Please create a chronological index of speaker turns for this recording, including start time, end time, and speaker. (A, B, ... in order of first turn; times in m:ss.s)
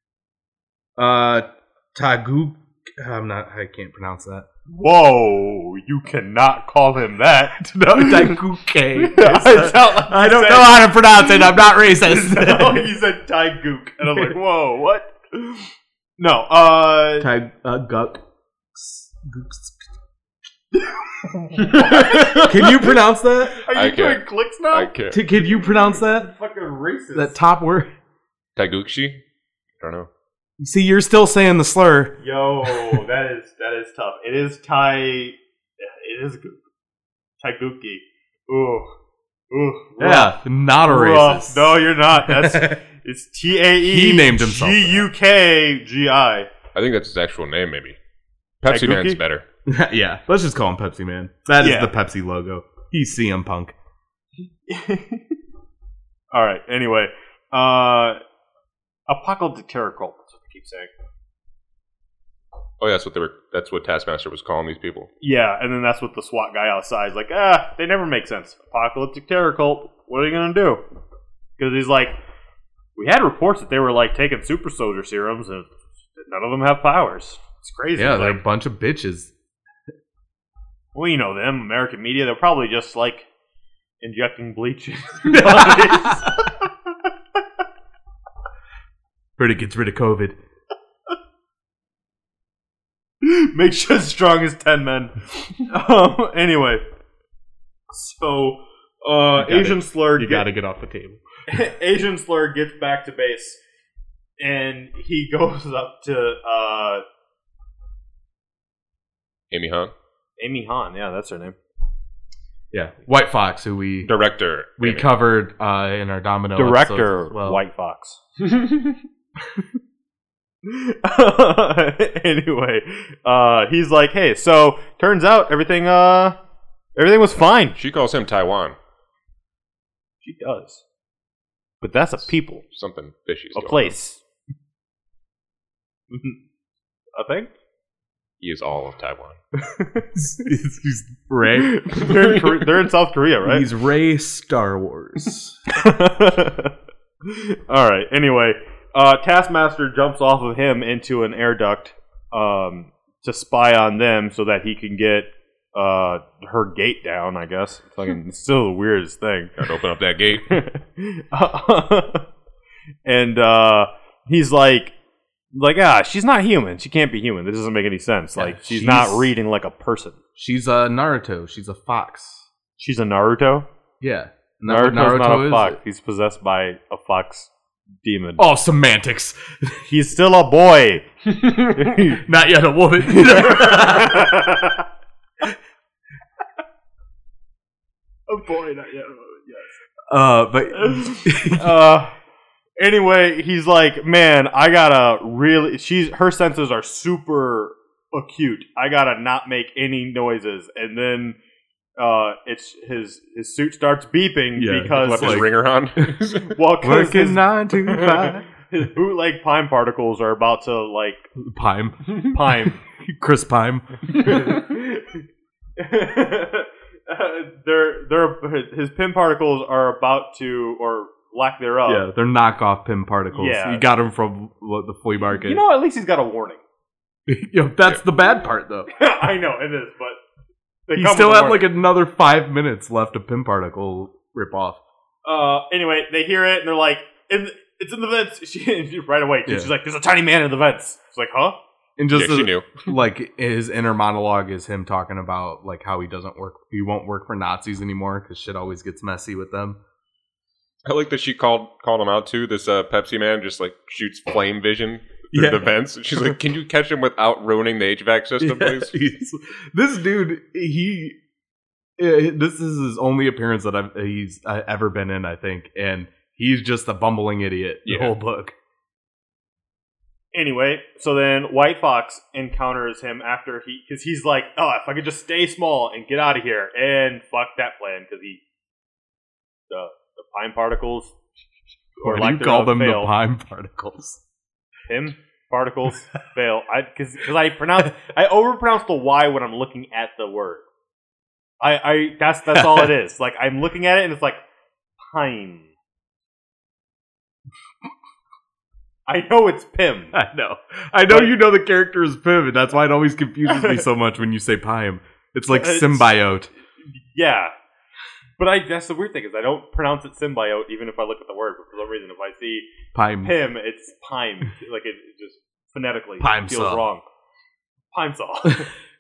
0:01.0-0:04.5 A
0:04.7-0:08.4 B
0:07.6-0:12.9 A
0:09.0-0:17.3 B
0:17.2-0:19.8 A
0:20.7-0:22.8 B
0:21.7-0:22.6 C
0:22.4-0:23.6 A
0:23.6-0:27.4 B
0:23.7-0:25.2 C
0:25.1-0:26.3 A
0:27.2-0:27.9 A
0:28.6-0:29.2 C
0:29.8-0:30.1 C
0:30.6-0:32.2 A
0:32.2-0:36.6 B
0:37.4-0:38.9 B
0:39.5-0:46.5 B
0:40.0-0:42.8 A
0:43.8-0:45.1 A
0:46.7-0:48.0 C
0:48.6-0:49.4 C
0:48.7-0:49.2 B
0:49.7-0:53.7 A
0:51.6-0:51.9 B
0:54.7-0:55.3 B
0:56.3-0:58.2 B
0:59.1-1:00.9 B
1:02.8-1:05.1 C
1:05.2-1:10.8 B
1:11.6-1:12.2 B
1:13.0-1:18.4 B
1:18.0-1:19.3 A
1:21.0-1:23.3 B
1:24.0-1:26.7 B
1:25.3-1:26.3 A
1:29.4-1:30.4 A
1:33.2-1:36.8 B
1:37.9-1:40.5 B
1:39.4-1:41.2 A
1:41.5-1:43.6 B
1:44.4-1:47.0 B
1:49.5-1:49.9 C
1:50.4-1:51.6 B
1:52.7-1:54.1 A
1:54.0-1:55.1 C
1:54.8-1:57.6 A
1:56.6-1:58.2 B
2:00.6-2:06.4 B
2:07.0-2:07.8 B
2:07.8-2:08.8 C
2:10.2-2:10.8 B
2:11.8-2:12.6 B
2:12.7-2:13.9 C
2:13.6-2:14.2 B
2:16.1-2:16.4 B
2:17.2-2:17.5 B
2:18.4-2:19.4 C
2:19.6-2:20.1 B
2:20.2-2:22.2 A
2:21.6-2:23.7 B
2:23.4-2:25.6 A
2:25.8-2:26.7 B
2:27.2-2:39.6 B
2:39.6-2:40.5 C
2:40.5-2:42.3 B
2:43.0-2:45.0 B
2:45.5-2:50.2 B
2:48.4-2:49.3 A
2:50.4-2:52.5 A
2:52.8-2:53.7 B
2:54.0-2:55.8 A
2:54.7-2:57.5 B
2:58.0-2:58.4 B
2:58.4-2:59.8 A
2:59.9-3:02.2 B
3:02.1-3:04.4 A
3:03.2-3:04.8 B
3:08.3-3:09.8 B
3:10.1-3:11.8 A
3:10.8-3:12.1 B
3:12.8-3:21.4 B
3:22.0-3:25.5 B
3:24.6-3:26.2 A
3:24.9-3:26.6 C
3:26.5-3:31.3 B
3:26.8-3:28.5 A
3:31.4-3:34.3 A
3:32.2-3:32.8 B
3:34.1-3:35.2 B
3:35.8-3:42.0 B
3:41.9-3:45.6 A
3:43.3-3:43.8 B
3:45.4-3:46.6 B
3:47.3-3:48.9 A
3:48.9-3:50.2 B
3:50.9-3:51.7 B
3:51.0-3:54.8 A
3:55.2-4:01.6 B
3:59.5-3:59.7 A
4:02.0-4:09.8 A
4:02.1-4:02.8 C
4:10.9-4:18.9 C
4:15.3-4:15.7 A
4:18.4-4:21.2 A
4:22.0-4:28.5 A
4:27.9-4:28.1 C
4:30.3-4:38.4 B
4:39.7-4:41.1 B
4:42.0-4:43.1 B
4:42.0-4:44.2 A
4:44.9-4:50.6 B
4:51.6-4:54.4 B
4:52.6-4:52.9 A
4:55.1-4:55.7 B
4:59.1-5:00.2 B
5:00.1-5:06.5 A
5:01.1-5:01.3 B
5:03.5-5:03.8 B
5:05.5-5:06.1 B
5:06.9-5:07.5 B
5:08.4-5:12.7 B
5:12.9-5:13.3 A
5:13.2-5:17.0 B
5:16.2-5:16.8 A
5:17.9-5:18.7 B